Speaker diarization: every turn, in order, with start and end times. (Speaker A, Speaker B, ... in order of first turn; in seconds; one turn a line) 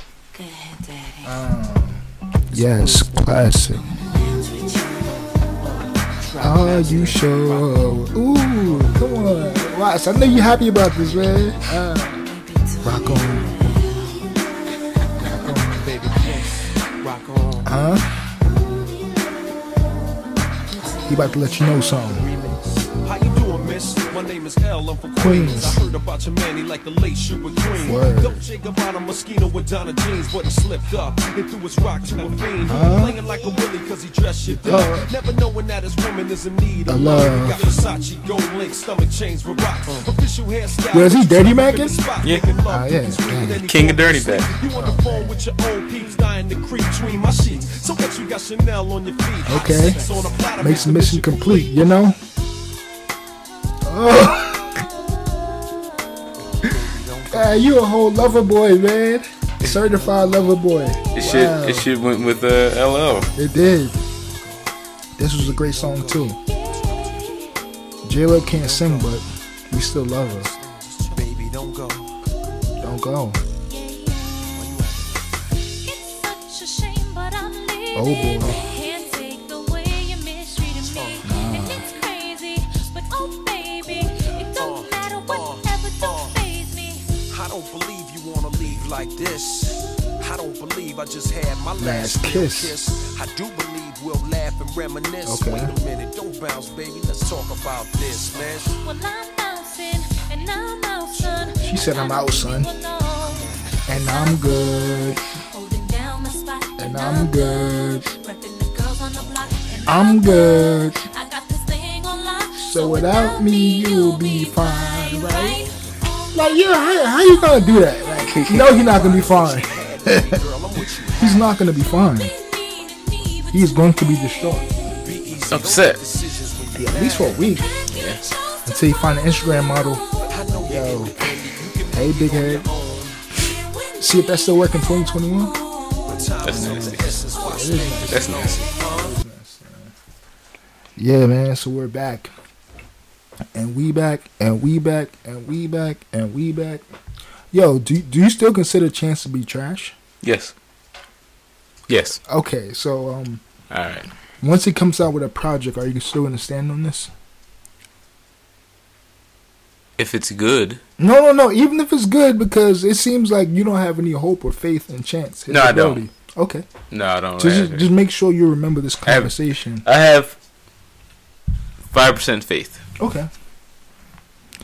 Speaker A: 0.3-1.4
Speaker B: 1.2-3.9
Speaker C: 2.7-3.1
Speaker A: 3.8-5.3
Speaker C: 5.6-8.1
Speaker B: 6.4-12.3
Speaker C: 8.6-9.6
Speaker A: 12.1-14.3
Speaker B: 12.8-13.6
Speaker C: 15.2-17.7
Speaker B: 15.2-15.8
Speaker B: 17.6-18.2
Speaker A: 20.7-22.0
Speaker B: 21.1-22.3
Speaker C: 22.1-51.8
Speaker B: 25.2-25.8
Speaker B: 27.8-28.5
Speaker B: 32.6-33.2
Speaker B: 34.5-35.1
Speaker B: 36.9-37.8
Speaker B: 40.9-42.1
Speaker D: 42.2-42.5
Speaker B: 42.7-43.7
Speaker D: 43.6-44.5
Speaker B: 44.7-45.5
Speaker B: 49.5-52.2
Speaker B: 53.8-54.9
Speaker C: 56.4-57.7
Speaker B: 57.3-61.9
Speaker C: 59.8-64.8
Speaker D: 61.1-63.3
Speaker B: 63.4-64.0
Speaker B: 65.2-66.4
Speaker C: 65.3-67.4
Speaker E: 66.5-67.5
Speaker B: 68.0-70.5
Speaker C: 68.4-69.2
Speaker C: 70.2-72.2
Speaker B: 72.8-73.4
Speaker E: 73.7-74.8
Speaker C: 74.5-75.2
Speaker E: 75.6-87.1
Speaker B: 78.0-78.6
Speaker C: 78.4-78.7
Speaker C: 80.8-81.3
Speaker B: 81.2-81.9
Speaker C: 83.9-86.4
Speaker C: 87.2-98.8
Speaker B: 91.8-92.8
Speaker B: 95.2-95.7
Speaker E: 98.5-118.5
Speaker B: 101.6-102.7
Speaker C: 103.2-103.8
Speaker B: 103.9-105.2
Speaker B: 106.8-108.0
Speaker C: 109.2-109.9
Speaker B: 109.9-111.0
Speaker B: 112.6-115.7
Speaker C: 115.6-116.1
Speaker B: 116.3-120.4
Speaker D: 118.3-118.6
Speaker C: 118.4-121.5
Speaker B: 121.1-122.3
Speaker E: 121.2-121.5
Speaker E: 122.0-125.5
Speaker B: 123.5-124.7
Speaker C: 125.0-127.7
Speaker D: 125.5-126.0
Speaker B: 126.8-127.7
Speaker D: 127.9-128.2
Speaker E: 128.1-130.4
Speaker B: 128.7-131.2
Speaker C: 130.3-133.4
Speaker B: 131.9-132.7
Speaker E: 133.4-136.4
Speaker B: 134.0-135.5
Speaker C: 136.1-139.2
Speaker D: 136.4-137.1
Speaker B: 136.5-139.9
Speaker D: 138.1-138.7
Speaker E: 138.4-138.9
Speaker B: 141.0-142.3
Speaker B: 143.5-146.8
Speaker B: 147.5-149.9
Speaker D: 150.2-150.5
Speaker D: 151.9-152.2
Speaker B: 152.3-153.4
Speaker D: 153.7-154.1
Speaker B: 154.4-157.1
Speaker D: 160.0-160.8
Speaker B: 161.0-166.7
Speaker D: 165.5-166.1
Speaker D: 166.9-167.9
Speaker B: 167.4-169.8
Speaker D: 169.1-170.4
Speaker D: 171.9-172.8
Speaker B: 173.0-173.3